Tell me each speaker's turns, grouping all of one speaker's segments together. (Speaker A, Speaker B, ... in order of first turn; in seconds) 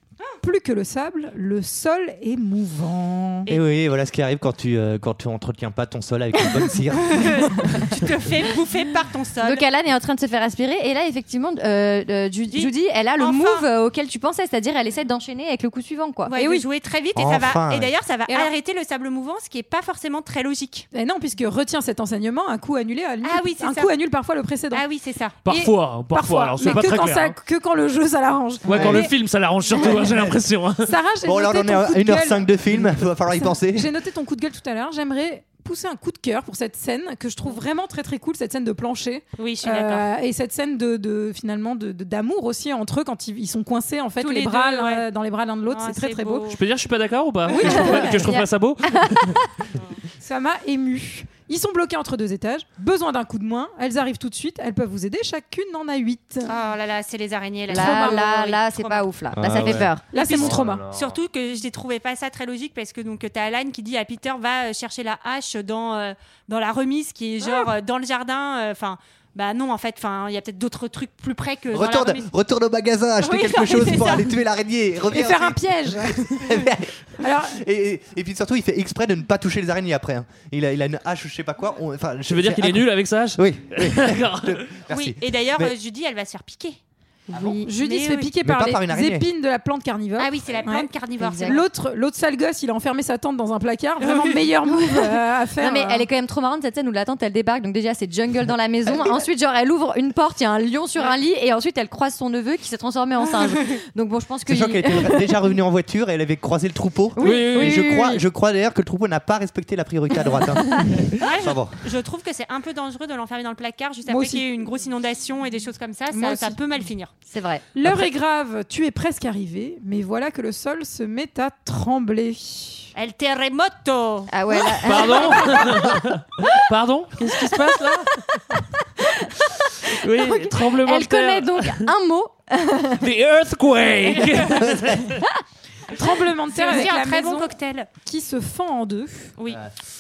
Speaker A: 0.4-3.5, 16.3-16.6, 20.9-24.8, 25.5-29.1, 30.8-46.5, 47.5-48.2, 50.2-56.5, 57.7-58.2, 60.1-60.8, 75.1-76.5, 77.2-77.6, 87.6-96.1, 114.1-114.5, 116.1-116.6, 117.7-122.9, 135.9-137.5, 138.1-139.3
Speaker B: 3.5-8.0, 17.1-17.9, 28.7-29.1, 31.2-33.9, 59.3-61.2, 71.7-85.7, 87.3-87.6, 88.4-89.3, 104.5-111.8, 134.7-135.0
Speaker C: 7.1-9.6, 12.5-13.7, 16.3-20.9, 23.2-23.9, 24.7-25.4, 39.4-40.1, 44.2-45.1, 45.7-46.6, 56.5-72.3, 73.2-74.3, 84.9-86.8, 87.8-88.3, 90.2-91.6, 103.2-103.8, 111.2-117.1, 123.0-124.3, 136.5-137.9
Speaker D: 9.4-16.4, 47.6-49.3, 57.7-60.1, 87.3-87.7, 91.2-91.6, 94.9-105.3, 107.2-108.2, 110.7-111.0, 117.3-117.6, 124.3-126.0, 129.0-133.0
Speaker E: 25.4-27.4, 28.6-30.9, 46.5-49.3, 82.3-84.8, 107.2-107.8, 124.8-128.2, 129.9-131.8, 133.0-135.2